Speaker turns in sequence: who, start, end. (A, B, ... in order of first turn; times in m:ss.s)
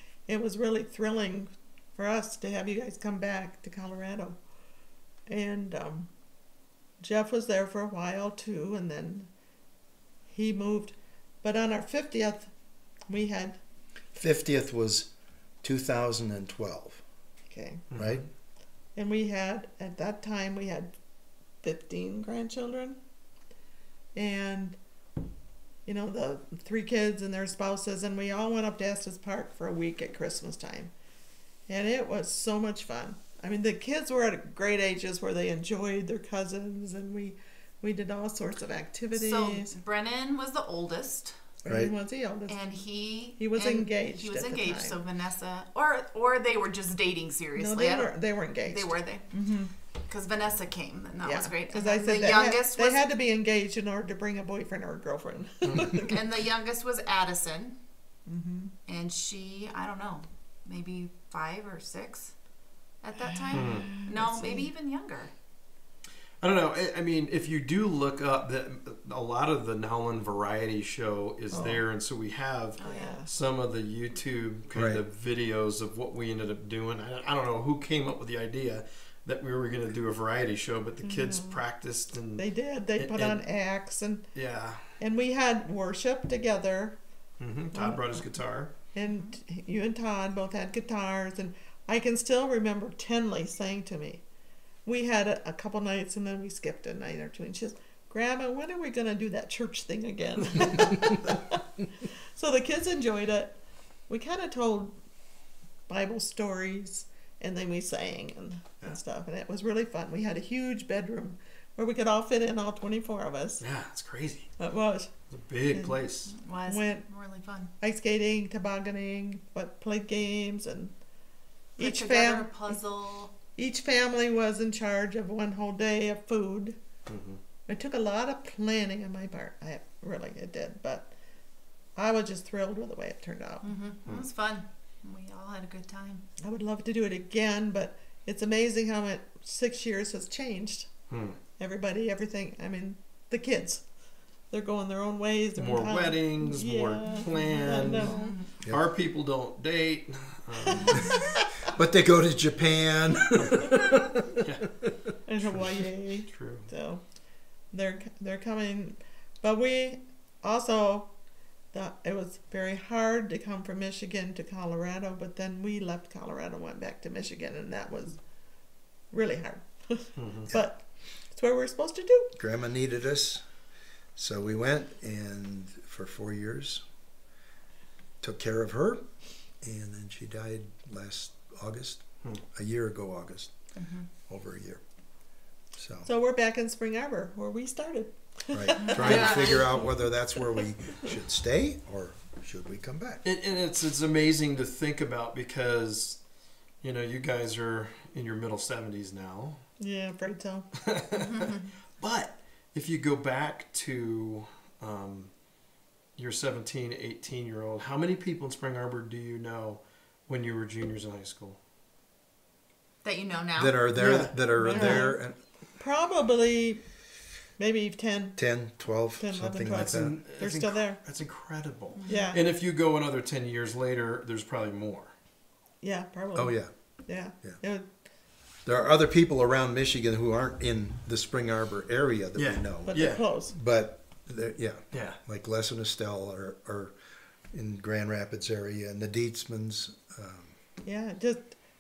0:00.3-0:04.4 A
0:05.3-0:06.1 A
0:07.0-0:09.3 A
0:10.3-0:12.5 A
0:13.1-0:13.6 A
0:14.1-0:15.1 B
0:15.6-0:17.0 B
0:17.5-0:17.8 A
0:17.9-0:18.3 C
0:18.0-0:18.2 B
0:18.9-0:20.9 A
0:21.6-0:23.0 A
0:24.1-0:24.8 A
0:25.8-0:30.9 A
0:31.7-0:39.7 A
0:39.1-0:41.4 D
0:41.6-0:42.6 A
0:41.6-0:41.9 B
0:42.5-0:49.2 D
0:43.4-0:45.0 A
0:47.5-0:49.7 A
0:50.1-0:53.0 D
0:51.2-0:56.2 A
0:55.9-0:57.8 D
0:58.3-0:58.7 A
0:58.9-1:02.3 D
1:03.0-1:05.3 D
1:03.2-1:04.7 A
1:03.5-1:03.9 C
1:06.4-1:23.4 C
1:11.5-1:11.8 A
1:12.8-1:13.2 D
1:12.8-1:13.3 A
1:14.7-1:15.0 B
1:21.0-1:21.6 A
1:22.4-1:24.3 A
1:24.3-1:25.0 C
1:25.0-1:27.0 A
1:27.4-1:28.7 C
1:27.7-1:28.1 A
1:28.9-1:34.2 A
1:29.0-1:29.3 D
1:34.8-1:44.9 A
1:45.9-1:53.6 A
1:53.6-1:54.5 C
1:54.6-1:55.1 A
1:55.3-1:56.3 C
1:55.7-1:56.0 A
1:56.3-1:57.7 D
1:56.7-1:57.1 A
1:57.8-2:00.9 A
2:01.8-2:02.8 A
2:01.8-2:03.3 D
2:03.5-2:06.8 A
2:07.1-2:07.4 C
2:07.7-2:11.1 A
2:12.0-2:13.6 A
2:13.6-2:16.2 D
2:16.4-2:20.9 A
2:21.1-2:21.4 C
2:21.6-2:23.8 A
2:24.5-2:28.3 A
2:25.6-2:31.2 C
2:27.3-2:28.4 D
2:30.7-2:31.2 A
2:31.6-2:34.2 B
2:33.4-2:33.8 C
2:34.4-2:34.8 C
2:35.2-2:37.0 A
2:36.3-2:36.7 C
2:37.7-2:41.1 A
2:41.7-2:48.2 A
2:49.1-2:52.3 A
2:50.2-2:50.5 C
2:52.4-2:53.4 B
2:54.2-2:56.8 B
2:58.2-2:59.0 B
2:59.6-3:03.5 B
3:03.7-3:04.1 D
3:04.3-3:04.8 B
3:05.8-3:06.1 B
3:06.0-3:09.7 A
3:08.5-3:13.2 B
3:08.8-3:09.7 D
3:09.0-3:09.5 C
3:13.2-3:16.2 C
3:16.8-3:19.6 C
3:19.8-3:20.7 A
3:20.8-3:25.3 C
3:21.2-3:21.6 D
3:26.2-3:31.6 C
3:33.0-3:33.8 D
3:33.6-3:35.4 B
3:34.0-3:34.4 C
3:34.6-3:35.2 A
3:34.7-3:35.0 D
3:35.8-3:36.8 A
3:37.6-3:38.4 A
3:38.4-3:40.1 B
3:39.2-3:41.0 A
3:39.7-3:45.1 C
3:42.0-3:42.2 D
3:42.1-3:42.4 A
3:45.8-3:47.8 A
3:46.4-3:46.7 B
3:48.6-3:57.0 B
3:52.4-3:53.2 C
3:52.9-3:53.5 A
3:54.9-3:55.2 C
3:57.5-4:00.5 B
4:00.8-4:01.6 A